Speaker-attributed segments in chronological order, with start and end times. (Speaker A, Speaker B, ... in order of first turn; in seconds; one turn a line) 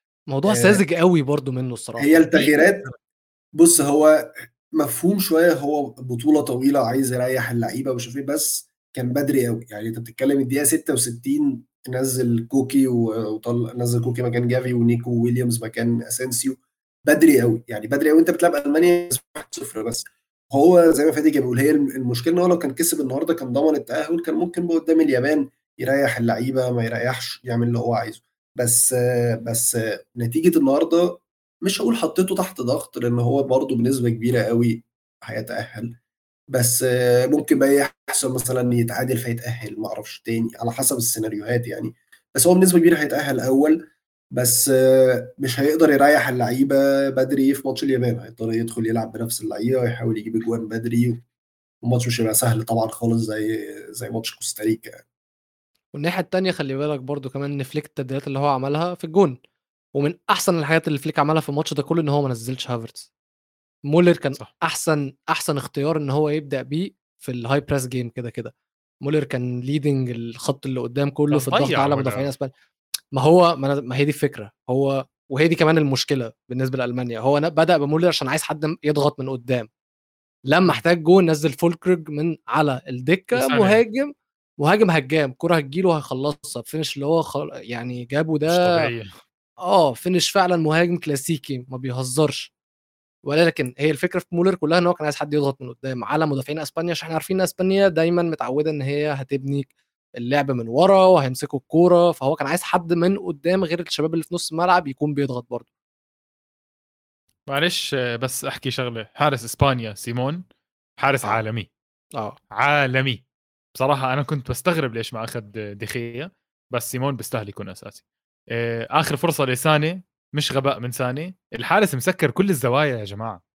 Speaker A: 0.3-2.5
Speaker B: 0.5-0.8
Speaker B: 2.0-2.9
Speaker B: 3.6-36.0
Speaker B: 36.5-43.8
Speaker B: 44.3-51.2
Speaker B: 51.8-55.0
Speaker A: 55.9-59.4
Speaker A: 60.0-63.1
Speaker A: 63.9-72.5
Speaker C: 71.3-72.3
Speaker A: 73.2-79.7
Speaker A: 80.5-88.9
Speaker C: 83.3-83.8
Speaker C: 88.5-89.2
Speaker A: 89.7-92.5
Speaker A: 93.3-105.7
Speaker C: 107.5-110.4
Speaker C: 111.0-111.7
Speaker C: 112.5-113.2
Speaker C: 113.8-123.4